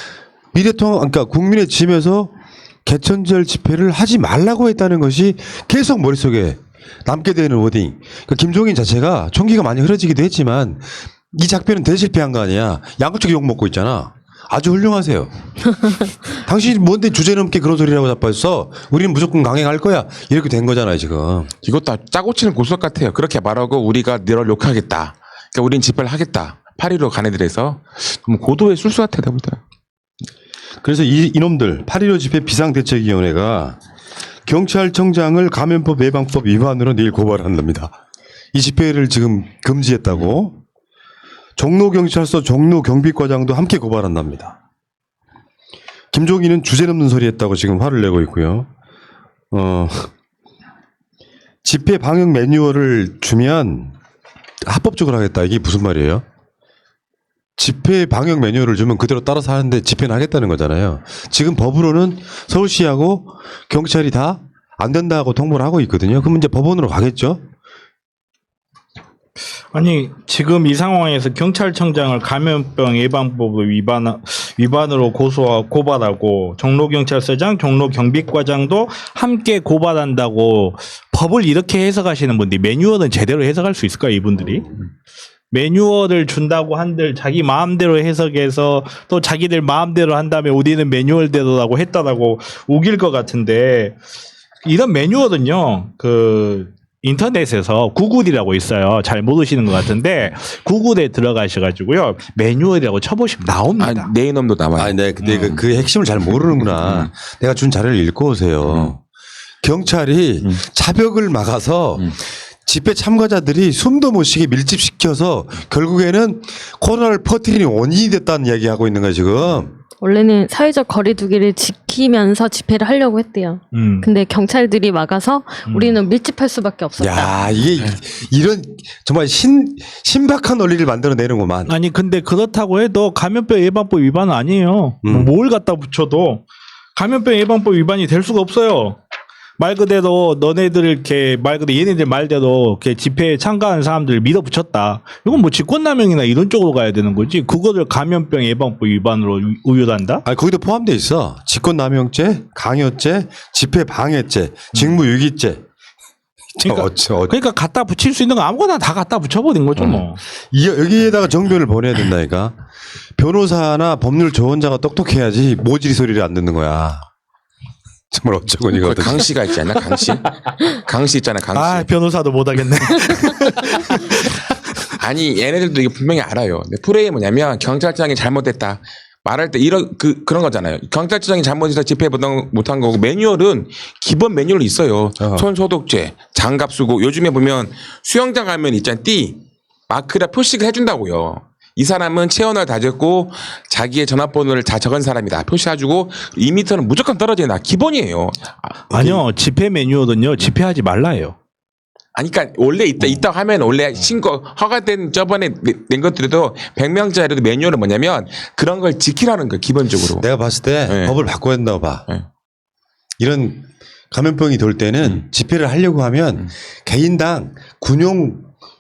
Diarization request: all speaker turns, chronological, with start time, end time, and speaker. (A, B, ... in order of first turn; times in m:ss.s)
0:00.5-0:02.3 A
0:02.8-0:21.5 A
0:21.6-0:29.6 B
0:30.8-0:33.8 A
0:34.4-0:37.9 A
0:38.5-0:40.6 A
0:41.6-0:44.6 A
0:46.1-0:48.7 A
0:49.5-0:50.1 A
0:51.6-0:53.9 A
0:54.6-0:56.2 A
0:57.6-1:07.4 A
1:09.7-1:24.8 C
1:25.5-1:34.0 C
1:34.6-1:44.1 C
1:43.8-1:45.6 B
1:44.8-1:49.0 A
1:46.7-1:47.1 B
1:48.6-1:48.9 B
1:49.6-1:59.7 A
2:00.0-2:07.5 D
2:03.7-2:04.1 C
2:05.7-2:06.0 C
2:07.0-2:11.7 A
2:11.6-2:16.4 C
2:15.0-2:15.3 A
2:17.0-2:19.0 C
2:19.6-2:30.2 C
2:30.2-2:35.6 A
2:36.6-2:37.3 A
2:36.6-2:40.2 C
2:39.7-2:42.5 A
2:43.2-2:47.0 A
2:48.1-2:49.3 A
2:48.7-2:51.9 B
2:50.2-2:50.5 C
2:51.5-2:54.9 C
2:55.0-3:18.7 B
3:05.2-3:05.5 A
3:18.9-3:21.4 C
3:18.9-3:19.2 A
3:22.1-3:30.2 B
3:30.2-3:32.0 A
3:30.8-3:31.3 B
3:33.2-3:38.5 A